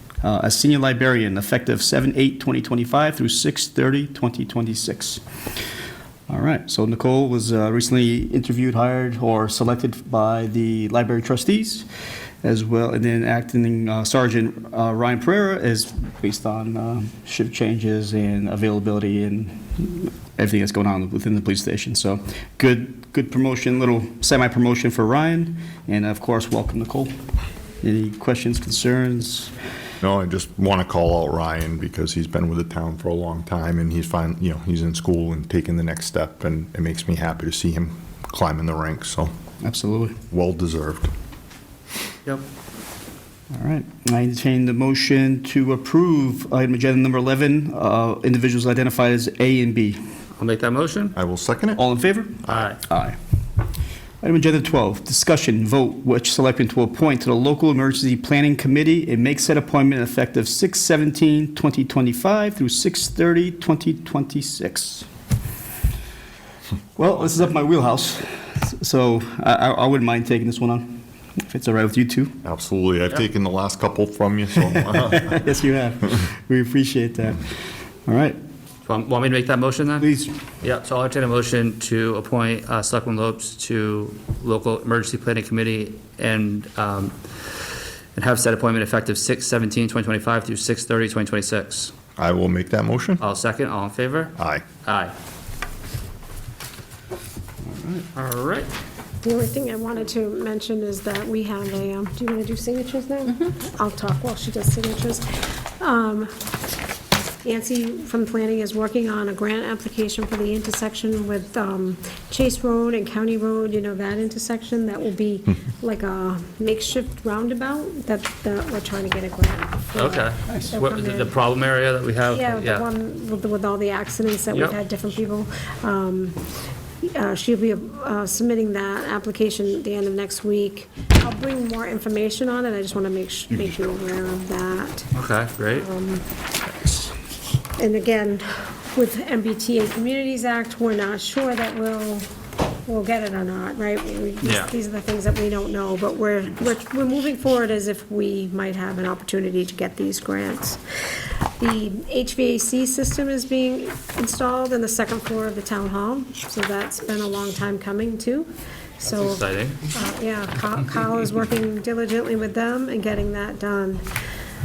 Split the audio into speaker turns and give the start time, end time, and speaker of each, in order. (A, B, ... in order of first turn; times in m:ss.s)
0:00.2-0:05.2 A
0:06.3-0:11.9 A
0:12.4-0:27.1 A
0:27.8-0:29.5 A
0:30.0-0:39.3 B
0:39.6-0:40.2 A
0:40.3-0:41.1 B
0:43.5-0:50.0 A
0:50.4-0:51.2 C
0:51.2-0:51.8 B
0:51.8-0:53.2 A
0:52.4-0:52.7 B
0:52.5-0:52.8 C
0:54.2-1:05.1 A
1:07.0-1:12.4 A
1:12.4-1:15.4 B
1:14.7-1:17.5 A
1:18.1-1:18.4 A
1:18.9-1:20.1 C
1:20.0-1:20.3 A
1:20.6-1:27.6 C
1:28.2-1:31.9 C
1:32.2-1:33.2 B
1:33.2-1:35.1 C
1:34.4-1:34.6 B
1:37.6-1:38.0 A
1:38.1-1:38.7 C
1:39.2-1:45.2 D
1:45.8-1:46.3 D
1:47.4-2:01.3 D
2:00.0-2:02.8 C
2:00.5-2:00.7 A
2:02.3-2:06.4 D
2:04.5-2:04.8 C
2:07.0-2:15.1 D
2:15.1-2:15.9 C
2:15.7-2:16.2 D
2:17.8-2:22.3 D
2:22.9-2:30.8 D
2:24.4-2:24.7 C
2:31.6-2:44.0 D
2:39.1-2:39.8 C